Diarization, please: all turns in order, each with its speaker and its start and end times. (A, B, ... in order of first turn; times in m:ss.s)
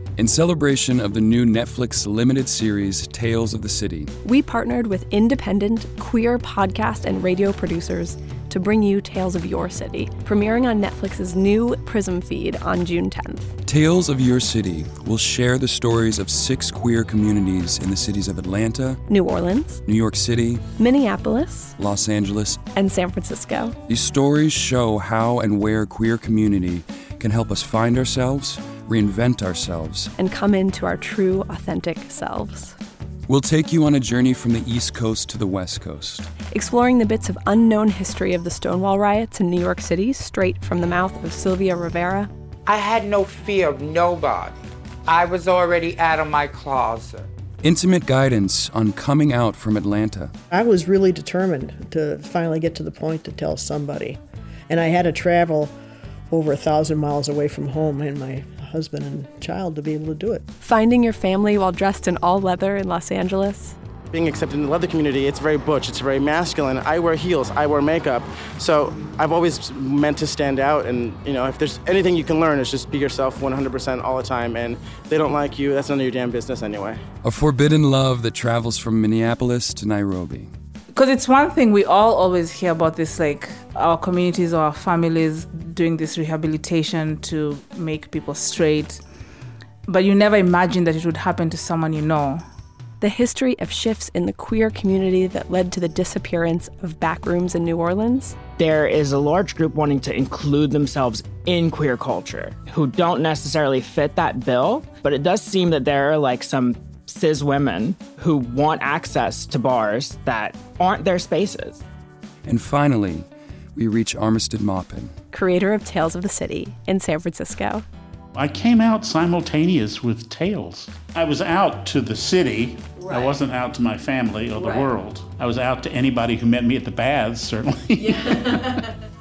0:00.2-0:04.1 A
0:04.2-0:13.5 B
0:13.6-0:19.0 A
0:19.1-0:19.8 B
0:19.9-0:20.6 A
0:20.8-0:21.8 B
0:21.8-0:22.6 A
0:22.7-0:23.8 B
0:23.9-0:30.1 A
0:30.2-0:32.8 B
0:33.3-0:36.3 A
0:36.5-0:42.3 B
0:42.7-0:47.3 C
0:47.6-0:50.3 A
0:50.5-0:55.7 D
0:56.3-1:00.4 D
1:00.6-1:03.8 B
1:04.1-1:17.0 E
1:17.2-1:20.5 A
1:20.9-1:29.0 F
1:29.9-1:32.4 F
1:33.0-1:38.4 B
1:38.6-1:51.8 G
1:52.5-1:55.1 A
1:55.3-1:57.8 B
1:58.4-2:08.8 H